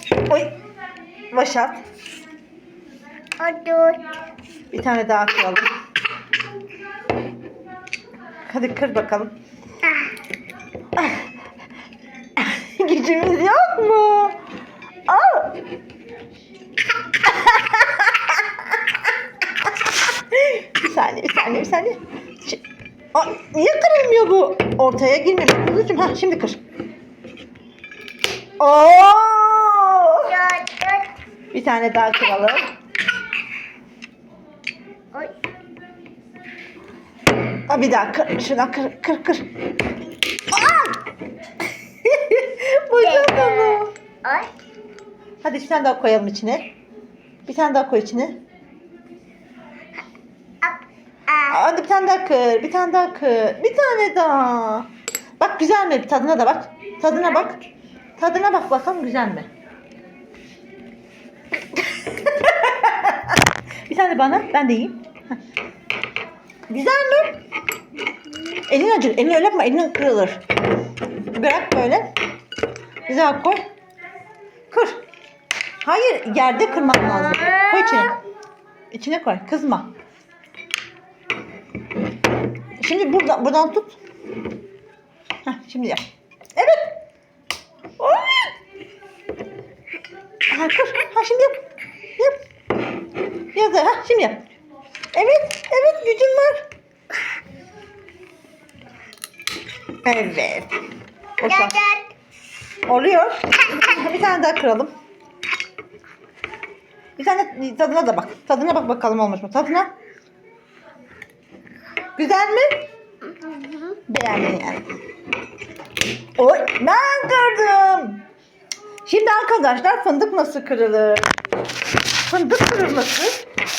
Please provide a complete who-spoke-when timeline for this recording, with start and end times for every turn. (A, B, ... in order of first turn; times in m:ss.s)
0:00.3-0:00.6 A
0:01.3-0:01.8 A
0:03.4-0:04.1 B
0:04.7-0:05.7 A
0:08.5-0:09.3 A
0:11.0-0:11.2 A
0:12.4-0:14.4 A
0:15.1-0:15.6 A
0:17.2-0:18.4 A
0:20.3-0:22.6 A
0:23.1-0:26.6 A
0:28.6-0:30.3 A
0:30.2-0:31.1 B
0:31.5-0:32.7 A
0:37.7-0:39.5 A
0:40.5-0:41.0 A
0:42.0-0:43.9 A
0:43.0-0:44.5 B
0:45.4-0:46.7 A
0:47.4-0:48.4 A
0:50.6-0:51.6 B
0:51.5-0:57.6 A
0:58.2-0:59.5 A
1:01.9-1:03.4 A
1:03.9-1:05.0 A
1:06.7-1:07.4 A
1:08.6-1:10.4 A
1:11.3-1:12.1 A
1:13.1-1:13.6 A
1:14.7-1:15.0 A
1:15.8-1:18.2 A
1:18.9-1:19.9 A
1:22.8-1:24.0 A
1:25.4-1:26.0 A
1:26.5-1:27.0 A
1:28.0-1:28.5 A
1:30.5-1:31.6 A
1:33.5-1:34.4 A
1:35.1-1:36.6 A
1:40.0-1:40.7 A
1:41.4-1:41.8 A
1:41.4-1:42.1 B
1:42.8-1:44.9 A
1:47.2-1:49.9 A
1:52.2-1:52.8 A
1:54.1-1:54.8 A
1:56.4-1:58.2 A
1:59.0-2:01.3 A
2:02.2-2:03.4 A